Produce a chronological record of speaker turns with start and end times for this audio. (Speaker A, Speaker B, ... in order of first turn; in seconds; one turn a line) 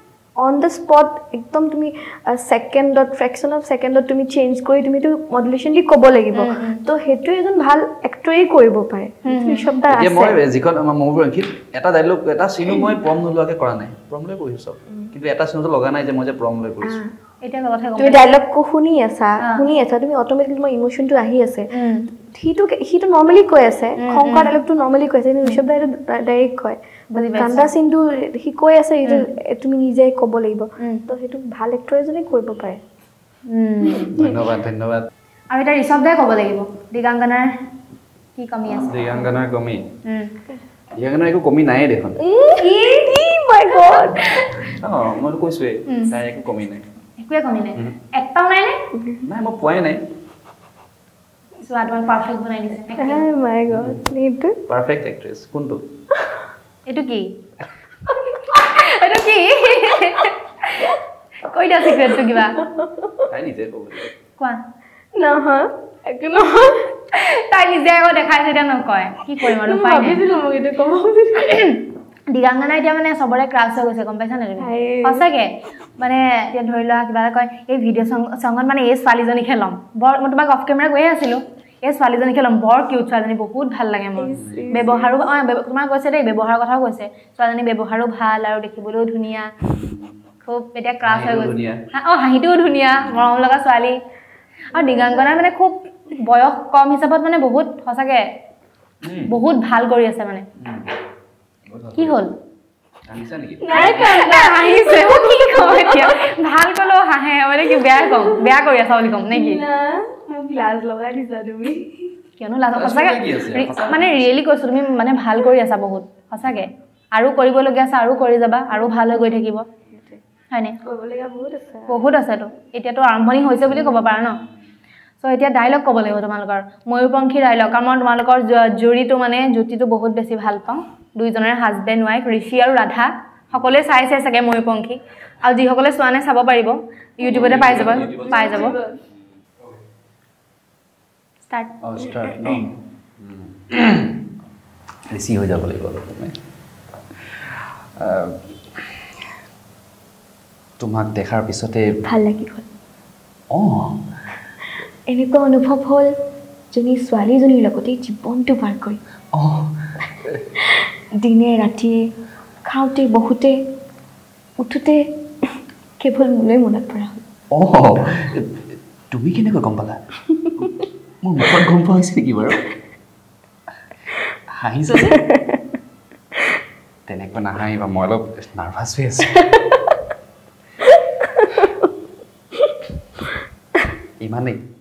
Speaker A: 0.4-10.4
Speaker B: 6.3-6.8
Speaker B: 9.3-9.8
Speaker C: 9.9-17.0
Speaker A: 16.8-17.1
Speaker B: 17.4-18.3
Speaker A: 18.0-21.7
Speaker B: 21.7-22.1
Speaker A: 22.3-32.8
Speaker B: 24.0-24.5
Speaker B: 27.1-27.7
Speaker B: 33.5-34.1
Speaker A: 33.9-34.3
Speaker C: 34.1-35.1
Speaker B: 35.5-37.5
Speaker B: 38.4-39.0
Speaker C: 38.7-39.9
Speaker B: 40.1-40.3
Speaker C: 40.9-42.2
Speaker A: 42.2-44.6
Speaker C: 44.7-46.8
Speaker B: 45.9-46.2
Speaker B: 47.2-48.8
Speaker A: 49.0-49.2
Speaker C: 49.2-50.0
Speaker B: 51.6-53.2
Speaker A: 53.0-54.6
Speaker C: 53.7-54.0
Speaker C: 54.7-55.8
Speaker B: 56.9-57.3
Speaker B: 58.5-60.9
Speaker B: 61.5-62.6
Speaker A: 62.0-63.3
Speaker C: 63.3-64.2
Speaker A: 65.2-66.9
Speaker B: 67.1-70.2
Speaker A: 69.4-71.7
Speaker B: 71.4-89.5
Speaker A: 74.6-75.2
Speaker A: 84.2-85.2
Speaker C: 84.3-84.7
Speaker C: 89.8-90.2
Speaker B: 90.5-94.0
Speaker C: 91.0-91.8
Speaker C: 93.0-93.3
Speaker B: 94.7-98.2
Speaker A: 94.8-95.2
Speaker C: 99.0-99.3
Speaker B: 99.3-100.5
Speaker C: 100.6-100.9
Speaker C: 101.7-102.2
Speaker B: 102.0-102.3
Speaker C: 103.1-104.2
Speaker A: 103.6-106.3
Speaker B: 103.7-109.6
Speaker A: 107.7-108.5
Speaker A: 109.3-112.1
Speaker B: 112.4-119.7
Speaker C: 112.7-114.3
Speaker A: 119.9-120.2
Speaker B: 120.5-120.8
Speaker A: 120.8-122.0
Speaker B: 121.9-124.4
Speaker B: 125.2-138.8
Speaker C: 137.2-138.8
Speaker A: 137.3-139.0
Speaker C: 141.8-144.2
Speaker C: 145.1-146.4
Speaker C: 147.4-148.4
Speaker C: 150.8-151.9
Speaker A: 152.0-152.7
Speaker C: 153.5-154.0
Speaker A: 155.1-156.1
Speaker A: 156.7-159.0
Speaker C: 159.3-160.4
Speaker A: 160.7-162.1
Speaker A: 162.7-163.6
Speaker A: 164.6-165.0
Speaker A: 166.0-167.2
Speaker C: 167.5-170.0
Speaker A: 170.3-170.8
Speaker C: 171.2-172.6
Speaker C: 174.5-175.2
Speaker A: 175.1-175.6
Speaker C: 177.1-179.6
Speaker A: 180.9-181.8
Speaker C: 184.2-184.6